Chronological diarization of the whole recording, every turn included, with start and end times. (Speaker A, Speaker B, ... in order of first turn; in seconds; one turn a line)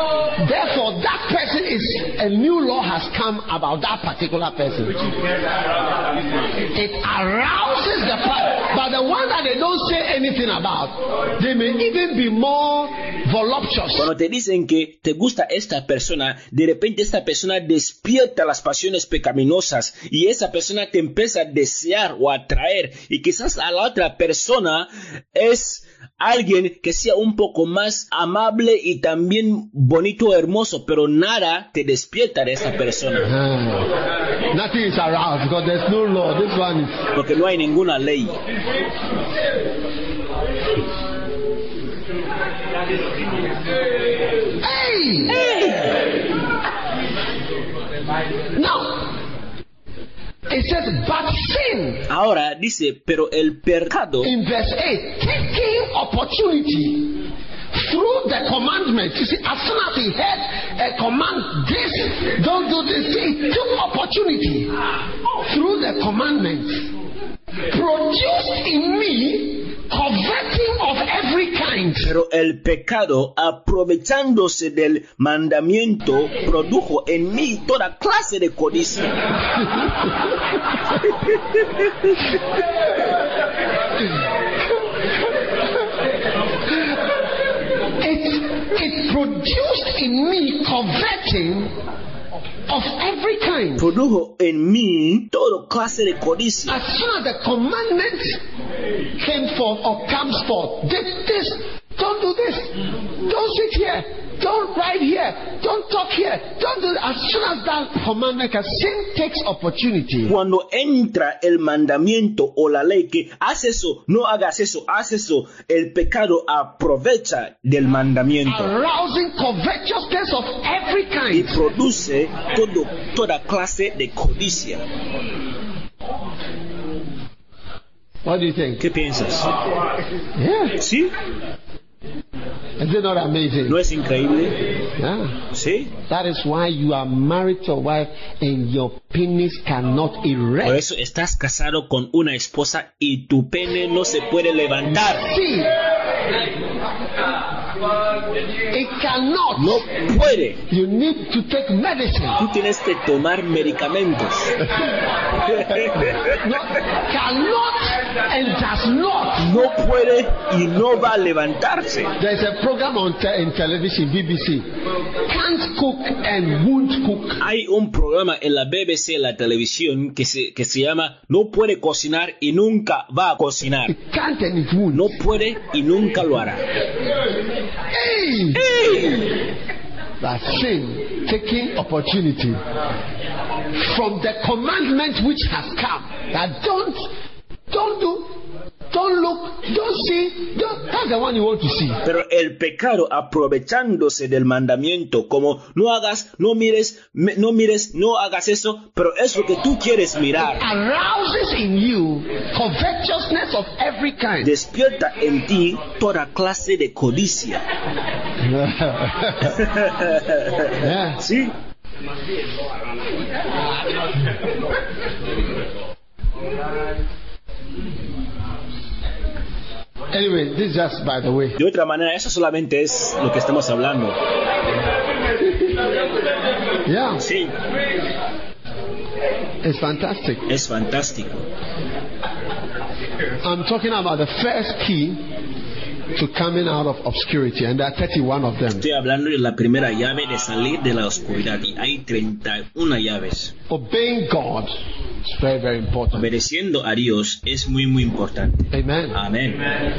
Speaker A: 0.3-5.0
Speaker A: 6.7-14.1
Speaker B: 13.9-33.3
Speaker A: 33.2-33.9
Speaker A: 34.5-37.1
Speaker B: 37.1-38.4
Speaker A: 44.6-45.4
Speaker B: 45.3-46.0
Speaker A: 48.5-49.2
Speaker A: 50.5-52.0
Speaker B: 52.0-54.3
Speaker A: 54.2-64.7
Speaker A: 65.2-66.9
Speaker A: 67.7-72.1
Speaker B: 72.0-79.2
Speaker B: 81.1-81.9
Speaker A: 88.0-91.8
Speaker A: 92.7-93.9
Speaker B: 93.8-96.8
Speaker A: 96.7-98.4
Speaker A: 99.2-110.3
Speaker B: 110.2-118.7
Speaker A: 118.5-121.6
Speaker B: 121.3-124.8
Speaker A: 128.2-128.8
Speaker B: 128.8-129.5
Speaker A: 130.3-130.8
Speaker B: 130.8-131.1
Speaker A: 132.8-133.8
Speaker B: 133.7-134.6
Speaker A: 135.0-135.4
Speaker B: 135.5-135.9
Speaker A: 136.1-140.8
Speaker B: 140.6-145.2
Speaker A: 144.9-145.7
Speaker A: 148.7-149.9
Speaker B: 149.6-150.6
Speaker A: 150.7-152.4
Speaker B: 152.4-154.6
Speaker B: 155.4-156.4
Speaker A: 156.3-159.5
Speaker B: 159.4-162.1
Speaker A: 162.2-164.7
Speaker A: 165.2-167.4
Speaker B: 167.4-173.9
Speaker A: 173.9-175.2
Speaker B: 174.9-176.7
Speaker A: 177.9-178.9
Speaker B: 178.5-179.3
Speaker A: 180.2-182.6
Speaker A: 183.7-187.1
Speaker A: 187.7-192.0
Speaker B: 192.0-200.7
Speaker A: 200.4-204.5
Speaker B: 204.4-207.6
Speaker A: 208.4-209.6
Speaker B: 209.4-211.5
Speaker A: 210.8-211.2
Speaker A: 220.1-221.6
Speaker B: 221.6-224.2
Speaker A: 226.8-227.2
Speaker B: 227.2-227.6
Speaker A: 229.6-230.5
Speaker B: 230.5-231.5
Speaker A: 233.4-235.3
Speaker A: 236.1-238.8
Speaker B: 238.7-243.5
Speaker A: 243.7-244.7
Speaker A: 245.2-246.3
Speaker B: 246.1-249.6
Speaker A: 248.7-249.2